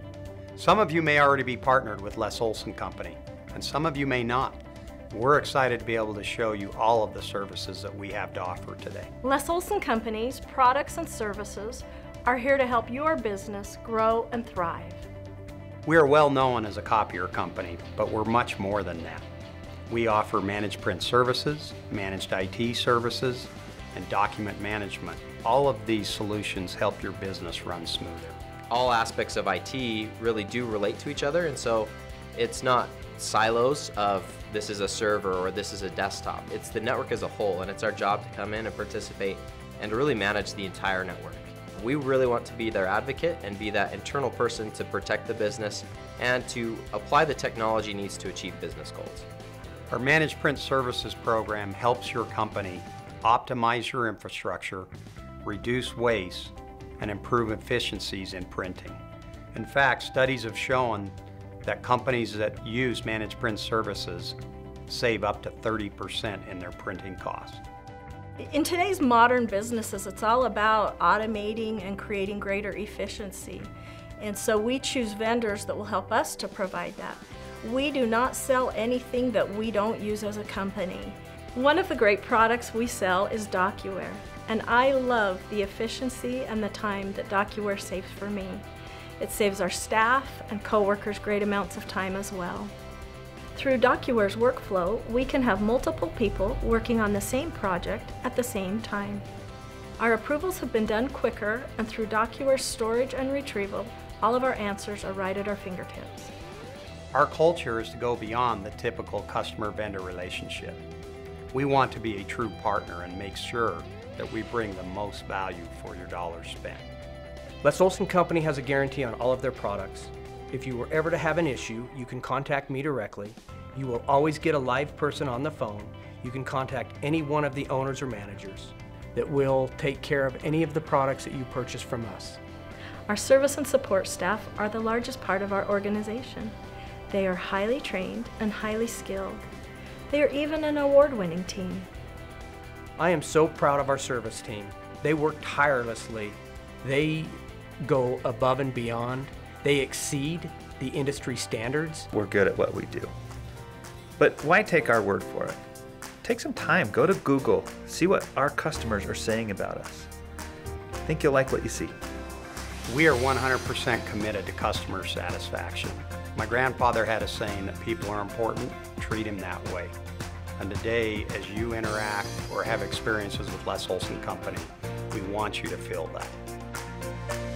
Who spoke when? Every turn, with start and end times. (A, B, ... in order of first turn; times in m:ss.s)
0:00.6-0:09.1 A
0:09.2-0:15.0 B
0:15.8-0:19.2 A
0:19.9-0:28.4 A
0:28.7-0:49.2 C
0:49.9-0:54.9 A
0:55.4-0:59.0 A
0:59.5-1:01.1 A
1:01.6-1:04.3 A
1:04.9-1:07.6 A
1:08.4-1:28.6 B
1:29.2-1:32.7 B
1:33.5-1:39.2 B
1:40.0-1:46.3 B
1:47.1-1:50.8 A
1:51.5-1:56.9 A
1:57.6-2:12.4 D
2:13.1-2:16.5 B
2:17.1-2:19.4 B
2:20.1-2:21.9 B
2:23.0-2:32.1 D
2:32.1-2:33.1 E
2:34.2-2:35.6 E
2:36.2-2:40.1 E
2:41.0-2:42.0 E
2:42.9-2:49.9 A
2:50.6-2:56.4 A